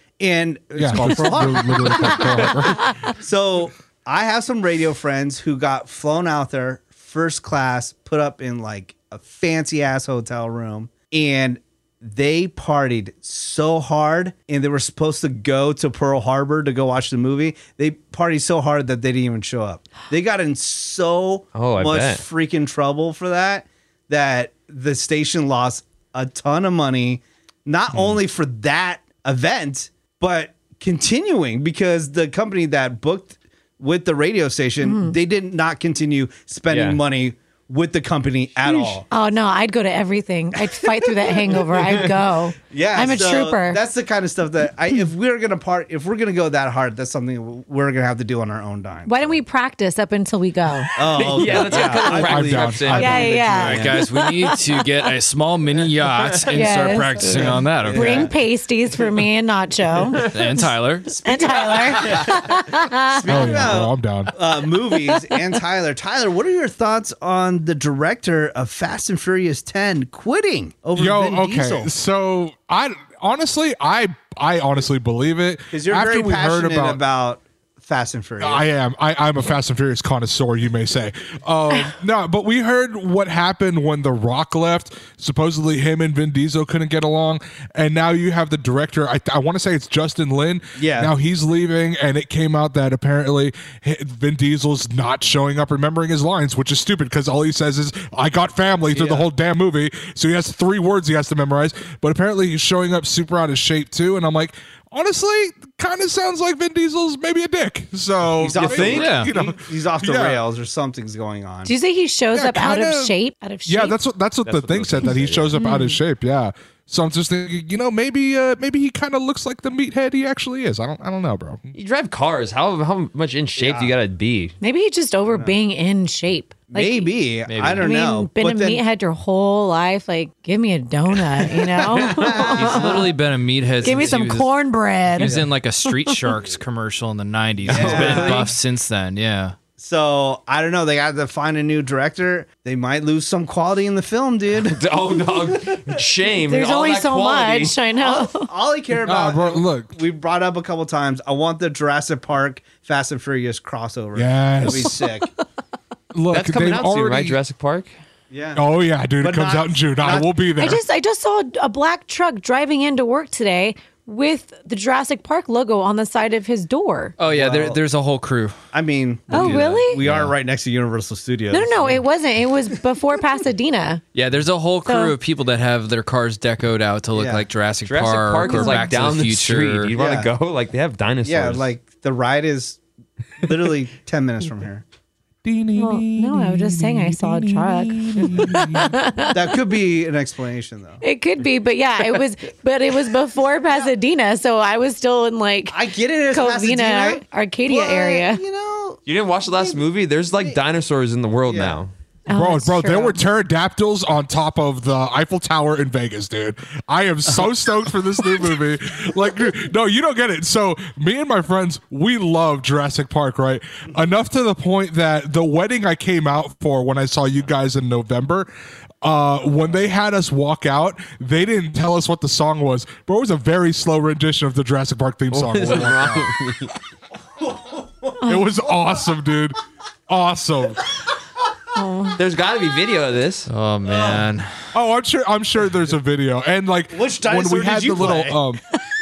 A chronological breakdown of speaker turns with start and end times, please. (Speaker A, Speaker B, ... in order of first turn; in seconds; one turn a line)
Speaker A: 0.2-39.0
Speaker B: 0.8-2.9
Speaker C: 21.5-22.2
Speaker C: 27.9-28.2
Speaker D: 34.8-35.1
Speaker C: 36.7-37.0
Speaker D: 39.1-43.8
Speaker A: 42.7-49.4
Speaker D: 49.1-51.0
Speaker A: 51.0-53.9
Speaker C: 51.1-54.0
Speaker B: 52.0-53.4
Speaker D: 52.9-55.1
Speaker E: 53.6-58.3
Speaker C: 56.3-56.5
Speaker D: 56.5-60.7
Speaker A: 57.2-58.3
Speaker E: 60.2-61.2
Speaker A: 61.1-71.9
Speaker D: 61.2-63.6
Speaker B: 63.3-64.3
Speaker B: 71.0-77.0
Speaker A: 75.7-78.6
Speaker B: 78.4-110.4
Speaker A: 90.8-91.1
Speaker A: 98.9-99.3
Speaker A: 108.4-111.7
Speaker C: 108.5-109.1
Speaker E: 108.9-109.3
Speaker D: 111.6-114.0
Speaker B: 112.3-113.1
Speaker B: 113.7-121.7
Speaker C: 114.4-115.6
Speaker D: 115.5-116.0
Speaker C: 121.7-124.5
Speaker A: 123.6-123.9
Speaker D: 124.6-127.1
Speaker A: 125.3-125.5
Speaker A: 126.7-128.8
Speaker E: 127.5-127.9
Speaker D: 127.8-133.1
Speaker A: 131.5-133.1
Speaker E: 132.3-134.5
Speaker D: 133.8-136.3
Speaker E: 135.1-139.5
Speaker A: 135.2-135.5
Speaker A: 137.7-138.5
Speaker C: 137.7-138.5
Speaker A: 139.8-144.9
Speaker C: 144.6-147.8
Speaker A: 145.5-145.9
Speaker D: 146.4-148.5
Speaker A: 148.0-155.3
Speaker B: 149.0-149.9
Speaker B: 154.1-155.0
Speaker B: 156.1-157.4
Speaker C: 156.3-157.9
Speaker A: 158.3-158.6
Speaker B: 158.6-160.8
Speaker A: 159.2-160.3
Speaker D: 160.6-167.2
Speaker E: 167.2-168.6
Speaker A: 167.3-167.8
Speaker A: 168.7-172.0
Speaker D: 169.3-170.0
Speaker E: 169.3-170.3
Speaker D: 171.5-174.0
Speaker E: 174.1-179.9
Speaker D: 174.8-175.2
Speaker A: 177.1-177.4
Speaker C: 177.8-181.7
Speaker D: 178.5-179.0
Speaker A: 179.9-180.3
Speaker A: 181.2-182.8
Speaker A: 183.4-184.8
Speaker B: 185.4-189.0
Speaker D: 185.7-189.5
Speaker A: 189.3-191.0
Speaker D: 191.0-195.8
Speaker A: 195.7-199.8
Speaker D: 196.3-198.4
Speaker C: 199.1-201.9
Speaker A: 201.5-201.8
Speaker D: 202.3-203.2
Speaker B: 202.3-218.5
Speaker B: 219.0-226.3
Speaker C: 225.3-226.8
Speaker A: 227.4-228.3
Speaker B: 228.2-230.8
Speaker D: 231.7-232.2
Speaker C: 232.2-233.5
Speaker E: 233.5-234.5
Speaker A: 233.8-234.3
Speaker B: 234.7-238.6
Speaker A: 236.9-238.4